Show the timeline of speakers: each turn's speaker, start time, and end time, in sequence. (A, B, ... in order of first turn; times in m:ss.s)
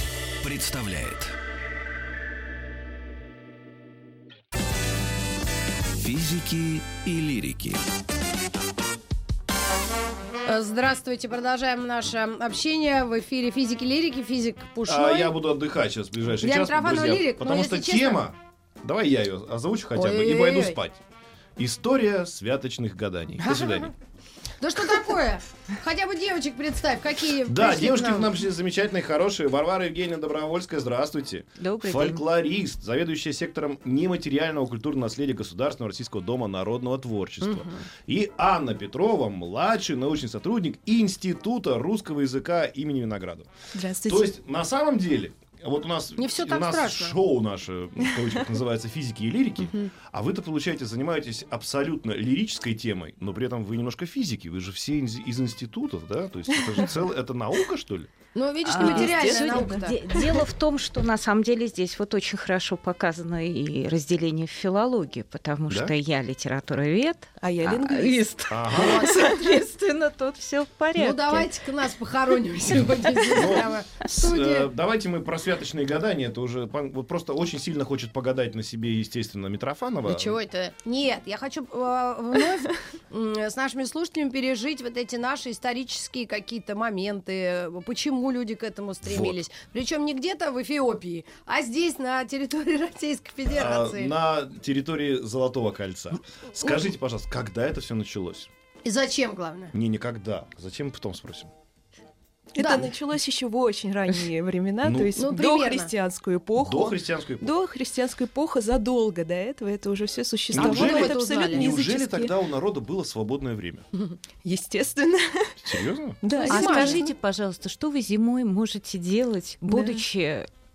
0:00.4-0:01.3 A
0:05.9-0:07.8 A
0:10.5-0:15.3 B
0:14.8-0:21.0 C
0:16.4-0:18.2 B
0:20.0-0:20.8 B
0:21.6-0:23.9 C
0:23.4-0:23.9 B
0:24.6-0:28.4 B
0:27.4-0:43.5 C
0:31.6-0:32.2 D
0:37.4-0:37.8 B
0:43.7-0:44.3 E
0:44.0-0:58.1 C
0:46.2-0:47.2 B
0:56.5-0:56.8 E
0:58.4-1:00.0 B
0:58.7-1:11.5 D
0:58.7-1:00.4 E
1:07.4-1:08.2 E
1:08.5-1:09.1 C
1:08.7-1:09.3 B
1:11.0-1:14.7 B
1:13.3-1:20.4 C
1:20.1-1:34.1 B
1:29.0-1:29.4 C
1:33.5-1:38.5 C
1:38.8-1:39.7 B
1:39.7-1:41.5 C
1:42.5-1:52.4 E
1:42.6-1:42.9 B
1:44.8-1:45.1 C
1:45.1-1:45.9 B
1:46.6-1:47.5 C
1:50.5-1:53.9 C
1:50.5-1:51.7 B
1:54.4-1:55.6 E
1:55.6-1:56.2 C
1:56.2-1:57.0 E
1:56.4-1:57.1 B
1:56.4-2:00.5 D
1:59.7-2:00.0 E